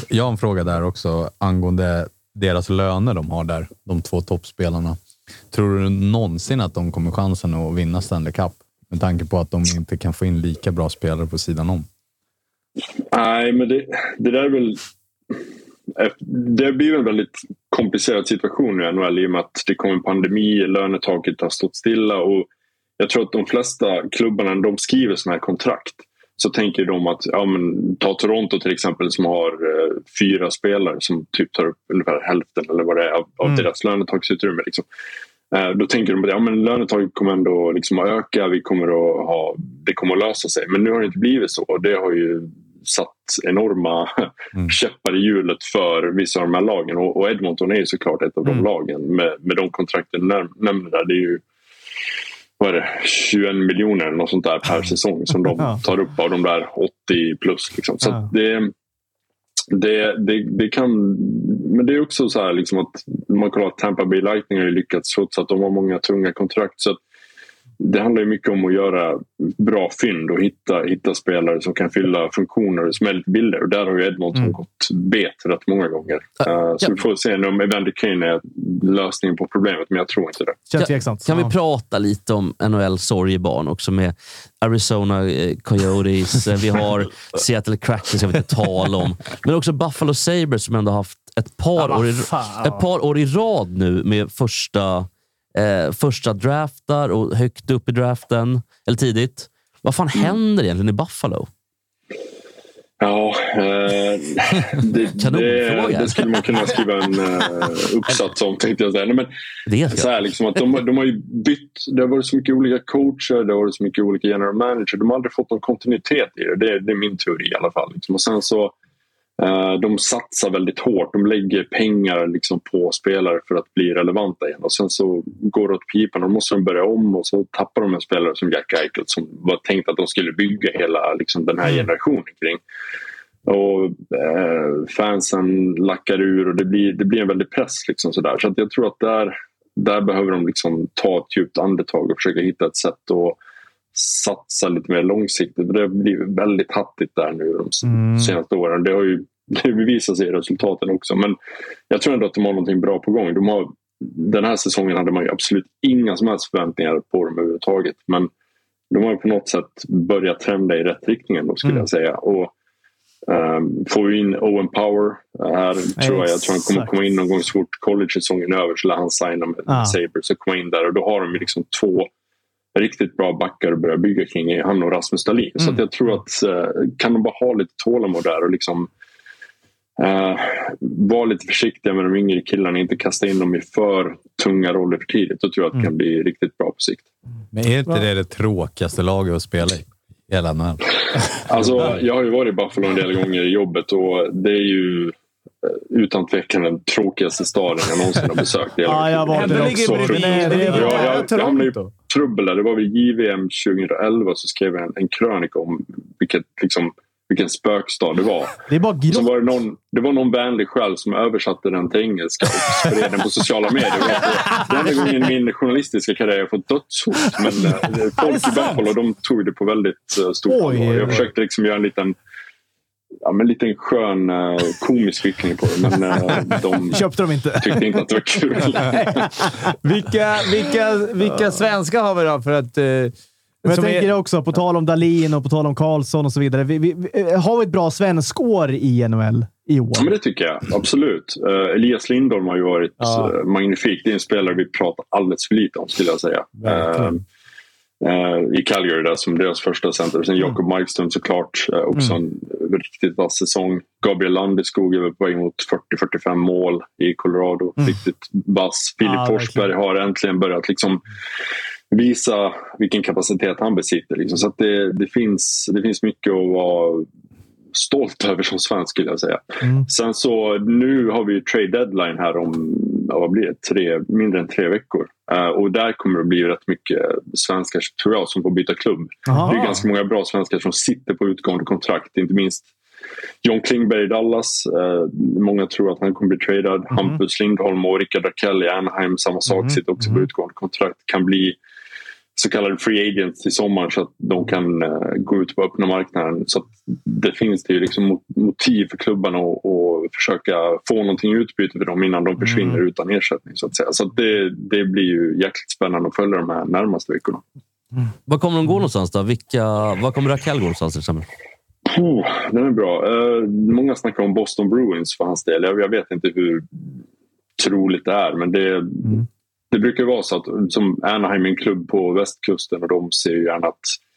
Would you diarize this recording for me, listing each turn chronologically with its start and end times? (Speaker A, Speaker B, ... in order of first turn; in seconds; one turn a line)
Speaker A: 0.1-5.0
Speaker A: 5.5-11.9
Speaker B: 13.1-14.8
Speaker B: 16.0-22.5
Speaker B: 23.0-34.9
Speaker B: 35.5-51.4
Speaker B: 52.6-58.7
Speaker B: 59.7-67.0
Speaker B: 67.8-80.6
Speaker C: 80.7-81.5
Speaker D: 80.8-101.5
Speaker E: 91.8-92.8
Speaker B: 103.0-109.3
Speaker D: 105.2-106.8
Speaker D: 109.7-110.2
Speaker B: 109.9-118.7
Speaker B: 119.4-132.6
Speaker B: 133.5-143.4
Speaker B: 143.9-151.4
Speaker C: 147.9-148.3
Speaker B: 151.9-158.3
Speaker B: 158.9-162.5
Speaker B: 163.3-172.1
Speaker C: 166.0-166.9
Speaker C: 169.7-170.0
Speaker B: 172.8-178.9
Speaker B: 180.0-187.1
Speaker A: 187.5-190.8
Speaker B: 191.4-222.2
Speaker A: 191.6-192.0
Speaker C: 198.8-201.2
Speaker E: 199.3-201.9
Speaker C: 208.7-209.4
Speaker C: 217.7-218.8
Speaker C: 220.5-221.2
Speaker B: 223.2-227.1
Speaker C: 226.9-228.1
Speaker B: 227.6-229.4
Speaker C: 228.7-229.5
Speaker E: 229.8-234.1
Speaker C: 233.7-240.1
Speaker B: 239.9-247.2
Speaker E: 243.0-243.3
Speaker E: 246.6-247.1
Speaker B: 248.0-261.0
Speaker C: 259.0-259.6
Speaker B: 261.9-267.1
Speaker B: 267.7-282.7
Speaker C: 279.3-279.7
Speaker B: 283.4-291.6
Speaker C: 289.5-289.8
Speaker B: 292.4-307.4
Speaker D: 308.3-311.3
Speaker B: 311.9-316.9
Speaker B: 317.6-324.0